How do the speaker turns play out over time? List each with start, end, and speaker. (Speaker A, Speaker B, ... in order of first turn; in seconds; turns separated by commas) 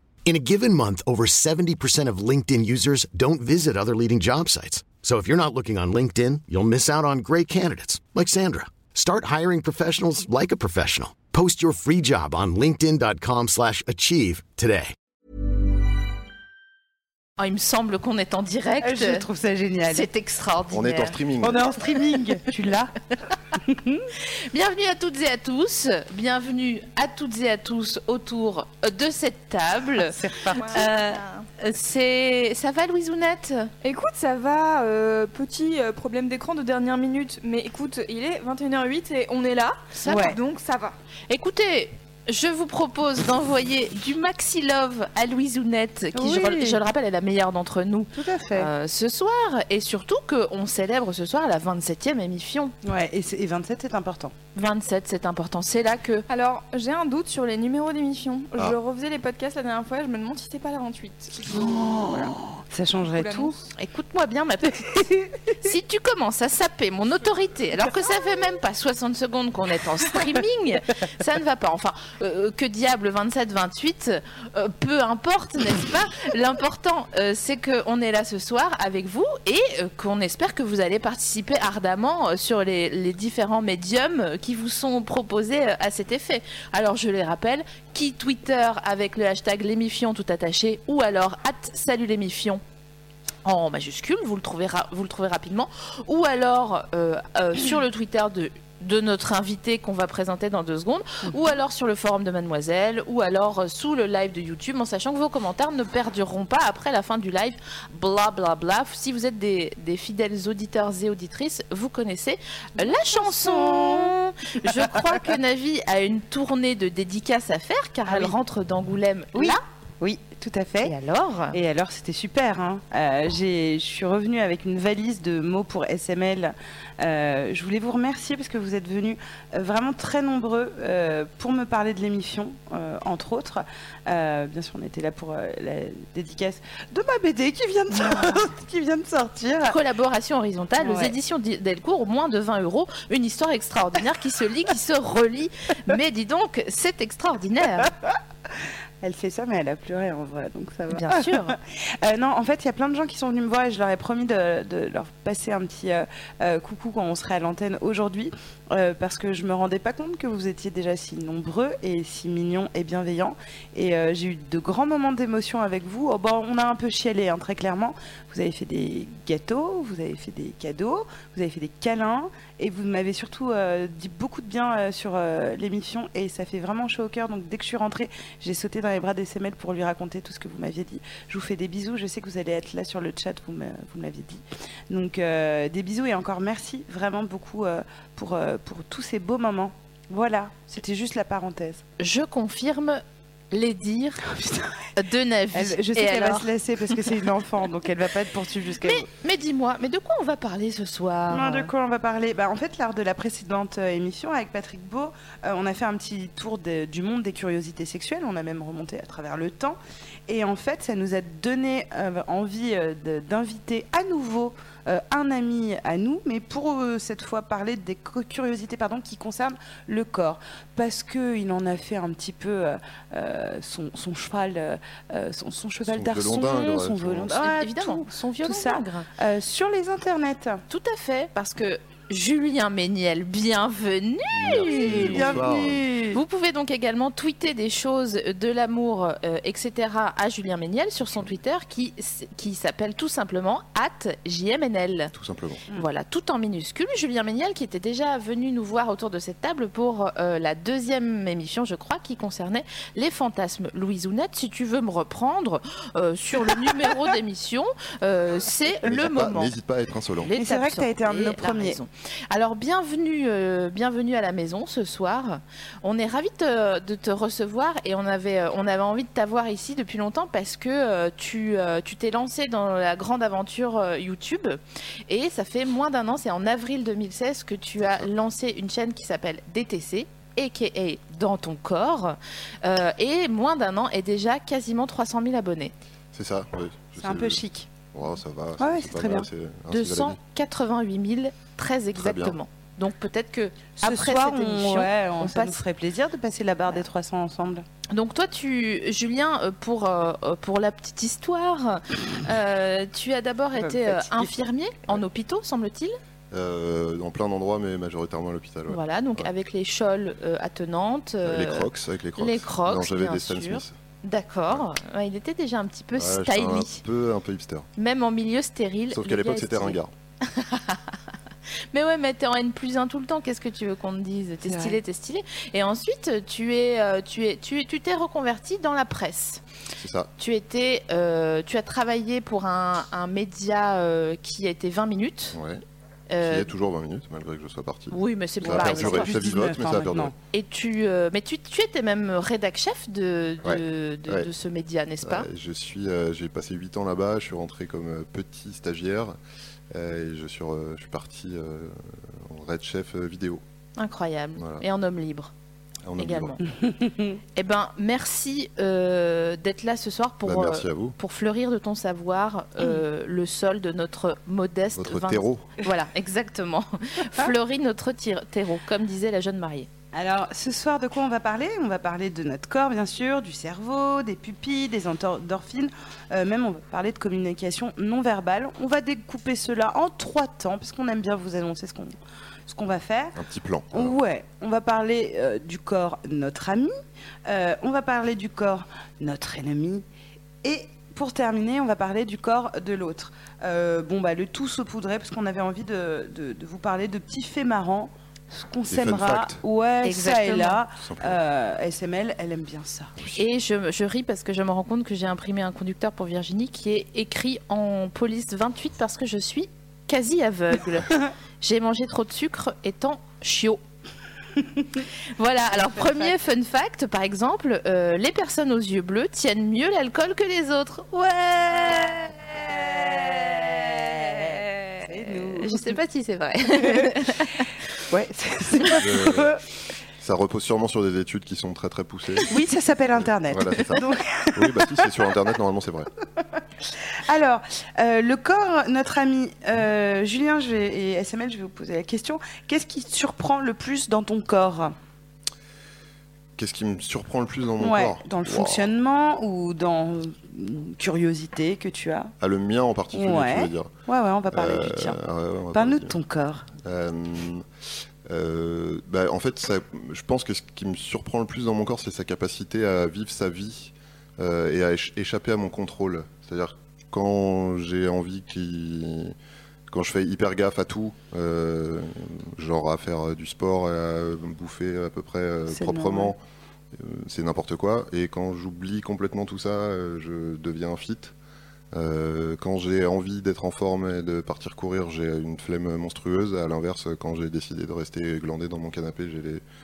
Speaker A: 0.2-14.9, Speaker B: 17.4-19.3, Speaker C: 18.8-20.1, Speaker B: 19.9-21.2, Speaker D: 20.7-21.7, Speaker C: 21.4-22.9, Speaker C: 23.5-24.1, Speaker B: 24.5-30.2, Speaker C: 30.0-30.9, Speaker E: 30.6-31.4, Speaker B: 30.7-33.7, Speaker E: 33.8-40.9, Speaker B: 40.0-40.3, Speaker C: 40.1-40.4, Speaker B: 41.3-52.7, Speaker C: 46.1-46.8, Speaker C: 48.1-48.7, Speaker C: 52.8-54.3, Speaker B: 54.5-56.3, Speaker E: 56.3-62.2, Speaker C: 61.5-63.6, Speaker E: 63.1-63.7, Speaker B: 63.8-92.6, Speaker B: 93.5-119.6, Speaker C: 112.8-114.1, Speaker C: 118.1-118.4, Speaker C: 119.3-121.0, Speaker B: 120.8-121.6, Speaker C: 121.5-139.8, Speaker B: 139.7-147.9, Speaker C: 140.8-141.2, Speaker C: 149.0-191.8, Speaker B: 150.9-151.6, Speaker B: 192.0-194.2, Speaker C: 194.3-194.9, Speaker B: 195.0-196.5, Speaker C: 195.5-199.1, Speaker B: 198.8-201.7, Speaker C: 201.3-230.6, Speaker D: 225.9-227.4, Speaker B: 227.3-229.1, Speaker B: 230.7-235.4, Speaker D: 234.3-235.8, Speaker C: 234.6-236.2, Speaker B: 236.1-245.1, Speaker D: 245.1-245.7, Speaker B: 245.7-259.5, Speaker D: 258.8-260.3, Speaker B: 260.2-285.7, Speaker C: 260.3-261.8, Speaker D: 277.8-278.1, Speaker D: 286.1-287.4, Speaker C: 287.0-287.7, Speaker D: 287.9-290.2, Speaker C: 288.6-289.3, Speaker B: 289.7-295.6, Speaker D: 291.9-292.4, Speaker C: 293.8-297.6, Speaker B: 297.9-305.9, Speaker C: 303.6-304.3, Speaker D: 306.3-309.3, Speaker B: 308.7-316.8, Speaker D: 311.3-313.7, Speaker D: 316.0-317.7, Speaker B: 317.8-320.9, Speaker D: 318.9-319.9, Speaker B: 321.7-329.4, Speaker C: 324.5-324.8, Speaker D: 329.8-330.1, Speaker B: 330.2-335.4, Speaker D: 335.3-335.6, Speaker B: 336.1-336.5, Speaker D: 336.2-340.1, Speaker B: 337.9-339.2, Speaker C: 338.4-340.1, Speaker B: 340.3-345.3, Speaker D: 343.4-344.3, Speaker D: 345.0-349.2, Speaker D: 349.7-353.4, Speaker B: 353.8-355.3, Speaker D: 354.4-354.6, Speaker D: 355.9-356.4, Speaker B: 356.0-356.4, Speaker C: 356.6-357.2, Speaker B: 357.4-369.7, Speaker D: 360.2-361.0, Speaker D: 364.8-365.5, Speaker C: 369.9-381.9, Speaker C: 382.5-383.2, Speaker D: 383.2-383.9, Speaker C: 383.7-386.7, Speaker C: 387.3-389.9, Speaker C: 390.4-402.9, Speaker D: 398.7-399.4, Speaker B: 399.8-400.6, Speaker D: 400.8-401.2, Speaker B: 403.1-413.6, Speaker B: 415.2-427.5, Speaker C: 415.6-416.1, Speaker C: 422.3-425.8, Speaker C: 426.5-429.4, Speaker D: 428.8-429.4, Speaker D: 430.0-432.3, Speaker C: 432.3-435.1, Speaker D: 433.3-435.9, Speaker C: 436.9-444.8, Speaker D: 446.4-448.7, Speaker C: 447.6-452.1, Speaker D: 452.2-453.7, Speaker C: 452.9-455.0, Speaker D: 454.3-455.9, Speaker C: 455.5-456.5, Speaker D: 456.6-457.4, Speaker D: 458.1-469.1, Speaker D: 469.7-476.2, Speaker C: 475.5-476.1, Speaker D: 476.7-481.1, Speaker D: 481.7-489.4